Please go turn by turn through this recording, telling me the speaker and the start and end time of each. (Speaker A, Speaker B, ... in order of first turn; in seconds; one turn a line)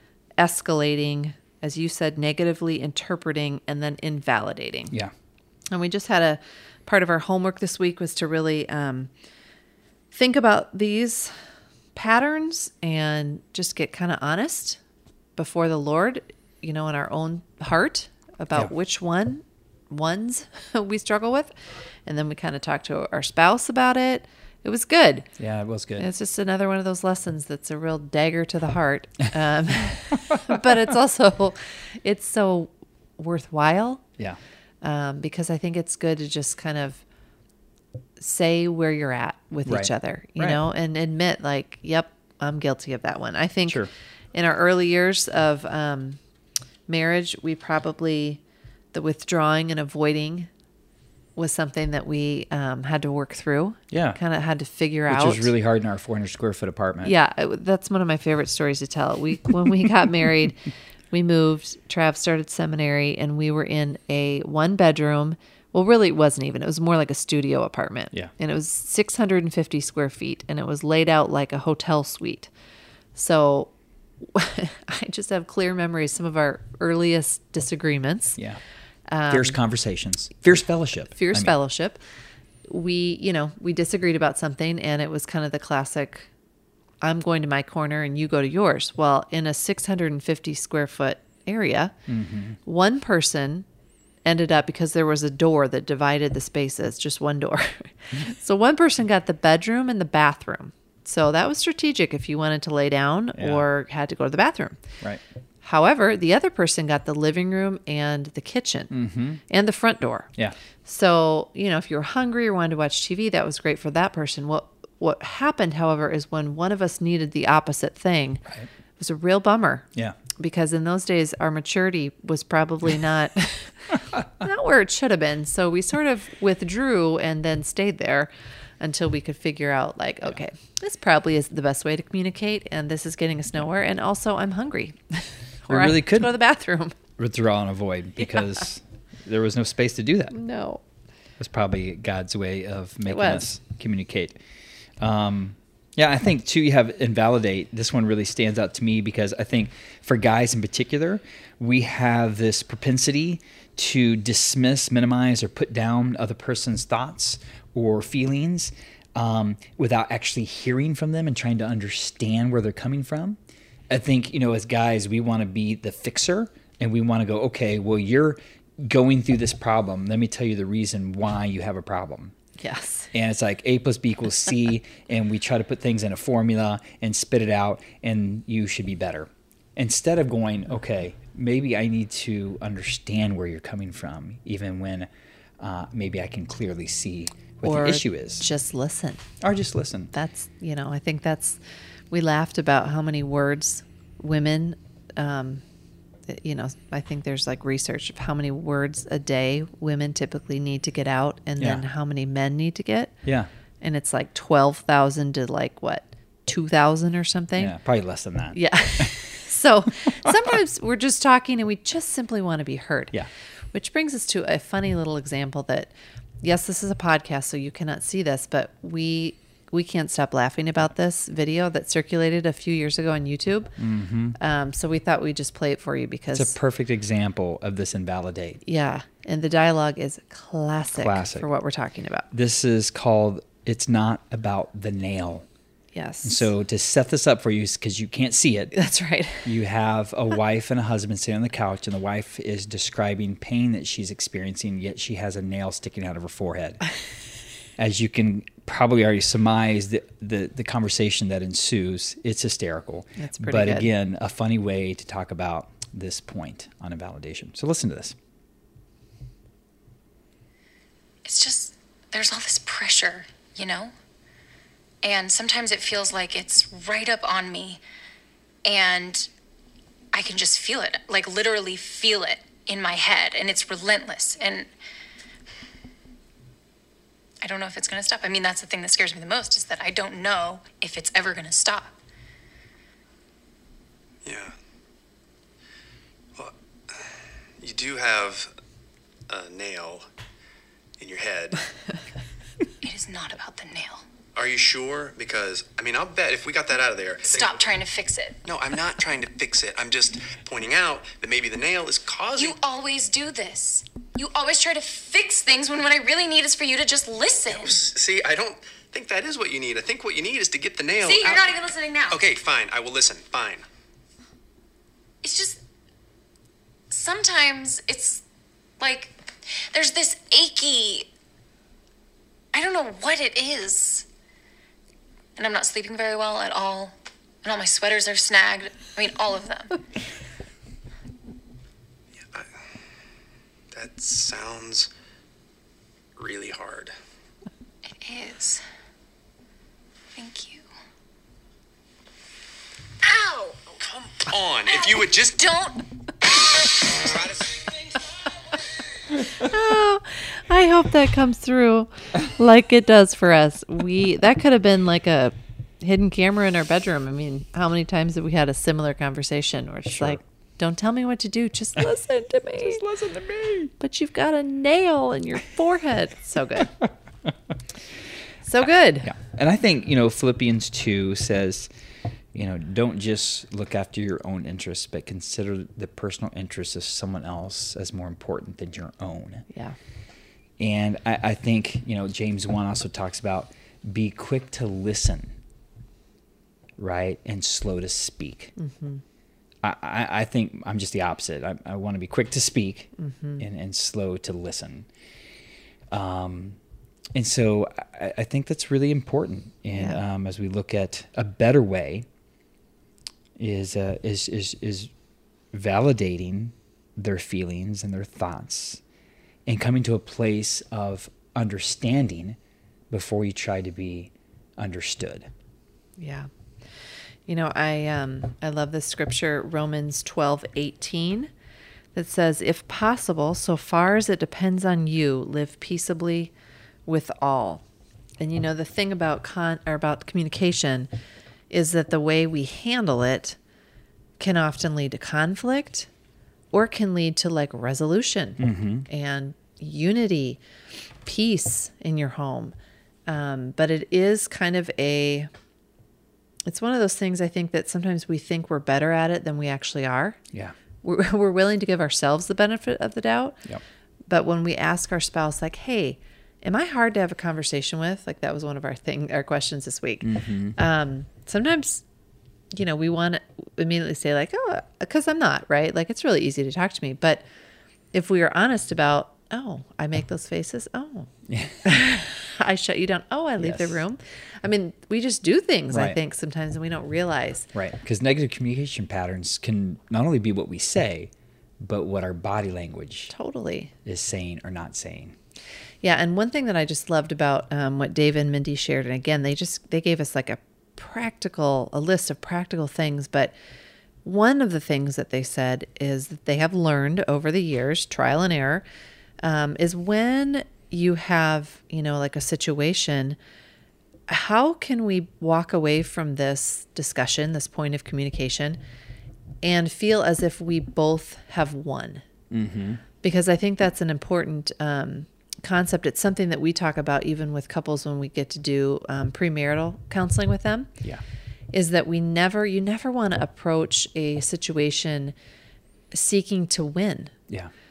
Speaker A: 0.4-5.0
Speaker A: 5.7-9.1
Speaker A: 10.1-11.4
Speaker A: 11.9-14.8
Speaker A: 15.4-21.5
Speaker A: 22.1-25.3
Speaker B: 25.4-26.1
Speaker A: 26.0-34.0
Speaker A: 34.8-37.0
Speaker A: 38.2-46.2
Speaker B: 39.6-40.6
Speaker A: 46.9-48.4
Speaker A: 48.9-50.5
Speaker A: 51.4-55.5
Speaker B: 53.9-54.2
Speaker B: 55.1-57.1
Speaker A: 57.0-72.5
Speaker A: 73.2-78.4
Speaker A: 79.1-79.6
Speaker B: 79.3-81.5
Speaker A: 81.1-82.0
Speaker A: 82.7-86.3
Speaker A: 87.0-92.0
Speaker B: 92.1-92.6
Speaker A: 92.7-93.7
Speaker A: 94.2-104.9
Speaker B: 103.3-103.7
Speaker A: 105.6-108.9
Speaker B: 108.9-109.4
Speaker A: 109.5-110.3
Speaker A: 110.8-118.4
Speaker A: 119.0-137.0
Speaker B: 135.7-136.3
Speaker B: 137.2-140.4
Speaker A: 140.3-140.8
Speaker B: 141.4-144.4
Speaker A: 143.1-143.4
Speaker B: 145.0-163.4
Speaker B: 163.9-172.3
Speaker A: 172.6-173.1
Speaker B: 173.1-185.1
Speaker B: 185.6-188.5
Speaker A: 187.6-189.2
Speaker B: 189.4-190.1
Speaker A: 190.1-191.6
Speaker A: 192.1-195.6
Speaker A: 196.3-203.2
Speaker B: 201.6-201.8
Speaker B: 203.2-203.5
Speaker A: 203.8-207.8
Speaker B: 207.6-209.2
Speaker A: 208.5-223.7
Speaker B: 223.8-224.3
Speaker A: 224.4-226.6
Speaker B: 226.3-228.6
Speaker A: 228.7-232.3
Speaker B: 231.0-231.5
Speaker B: 232.3-235.5
Speaker A: 235.9-236.5
Speaker B: 236.2-238.8
Speaker A: 238.7-239.5
Speaker B: 239.4-246.8
Speaker B: 247.8-258.2
Speaker A: 253.2-253.9
Speaker C: 261.2-263.9
Speaker C: 265.0-267.8
Speaker C: 268.6-269.3
Speaker C: 270.1-274.7
Speaker C: 277.4-281.9
Speaker D: 284.2-284.5
Speaker D: 286.4-287.1
Speaker D: 287.6-288.5
Speaker D: 289.3-290.1
Speaker D: 291.0-291.7
Speaker C: 292.8-294.1
Speaker D: 294.4-297.6
Speaker C: 297.3-298.4
Speaker D: 298.4-302.6
Speaker C: 302.4-307.9
Speaker D: 307.5-311.6
Speaker C: 311.0-312.2
Speaker D: 312.1-313.6
Speaker C: 315.2-315.6
Speaker C: 316.9-318.2
Speaker C: 318.8-319.1
Speaker C: 319.7-321.1
Speaker C: 322.5-324.1
Speaker C: 325.4-329.8
Speaker D: 333.7-334.9
Speaker D: 336.2-336.9
Speaker C: 338.0-338.6
Speaker C: 340.2-340.6
Speaker C: 343.0-343.6
Speaker D: 343.8-345.4
Speaker C: 344.9-345.9
Speaker D: 347.1-347.4
Speaker A: 349.3-362.9
Speaker B: 359.9-360.2
Speaker B: 362.6-363.7
Speaker A: 363.8-366.7
Speaker A: 368.4-369.1
Speaker B: 369.0-371.7
Speaker B: 372.3-379.5
Speaker A: 379.5-379.8
Speaker B: 380.6-385.3
Speaker B: 386.8-388.5
Speaker A: 388.6-389.0
Speaker B: 389.6-394.9
Speaker A: 393.0-393.4
Speaker B: 395.9-396.6
Speaker B: 397.1-402.1
Speaker A: 399.7-400.0
Speaker B: 403.4-404.9
Speaker B: 405.5-408.8
Speaker B: 409.5-412.4
Speaker B: 412.9-415.3
Speaker A: 416.0-416.3
Speaker A: 417.3-421.3
Speaker A: 421.9-426.3
Speaker A: 426.9-427.6
Speaker A: 428.2-430.9
Speaker A: 431.5-433.4
Speaker A: 434.2-435.9
Speaker A: 436.5-440.4
Speaker B: 438.4-438.9
Speaker A: 441.1-442.6
Speaker A: 443.1-445.3
Speaker A: 446.5-450.2
Speaker A: 450.8-453.4
Speaker A: 454.1-461.8
Speaker B: 460.0-460.6
Speaker A: 462.5-467.2
Speaker A: 467.9-471.1
Speaker B: 471.3-471.6
Speaker A: 471.6-477.5
Speaker B: 473.4-473.8
Speaker B: 475.7-476.0
Speaker B: 477.5-483.1
Speaker A: 483.1-483.7
Speaker B: 483.9-485.2
Speaker A: 485.8-493.3
Speaker A: 494.0-498.6
Speaker A: 499.2-503.2
Speaker A: 504.1-508.6
Speaker A: 509.4-512.0
Speaker B: 512.3-512.8
Speaker A: 513.0-520.7
Speaker A: 521.5-525.1
Speaker A: 525.9-527.1